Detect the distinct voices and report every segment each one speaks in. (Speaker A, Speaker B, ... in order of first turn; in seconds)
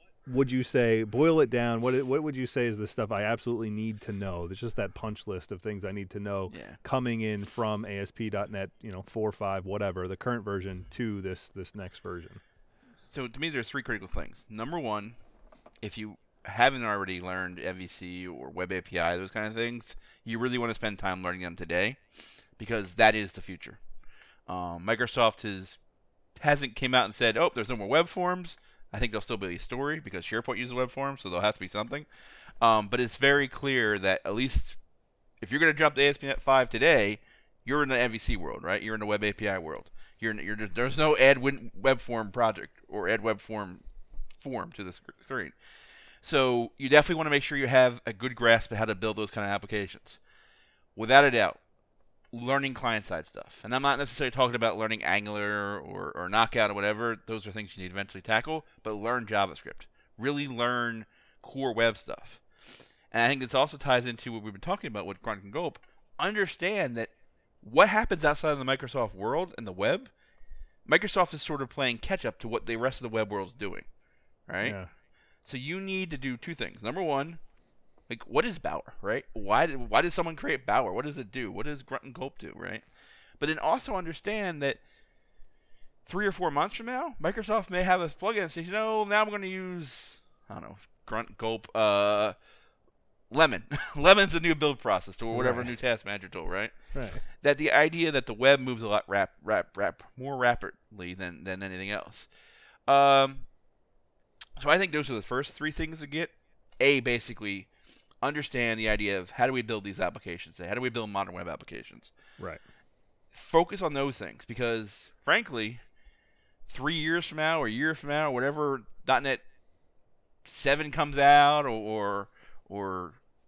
Speaker A: 0.3-12.4, 74.6-74.9, 95.3-95.7, 96.9-97.2
Speaker B: 6.5-6.8, 13.1-15.2, 15.8-22.0, 22.6-23.8, 24.5-25.8, 26.4-32.1, 32.6-34.8, 35.4-43.8, 44.4-45.5, 46.2-50.2, 51.0-51.6, 52.3-62.4, 63.1-70.1, 70.9-73.9, 74.5-74.8, 75.5-77.4, 78.1-82.8, 83.4-84.8, 86.1-92.3, 93.3-96.8, 97.4-102.3, 102.9-103.5, 104.6-107.7, 108.2-112.1, 113.3-115.8, 116.7-119.4, 120.5-123.2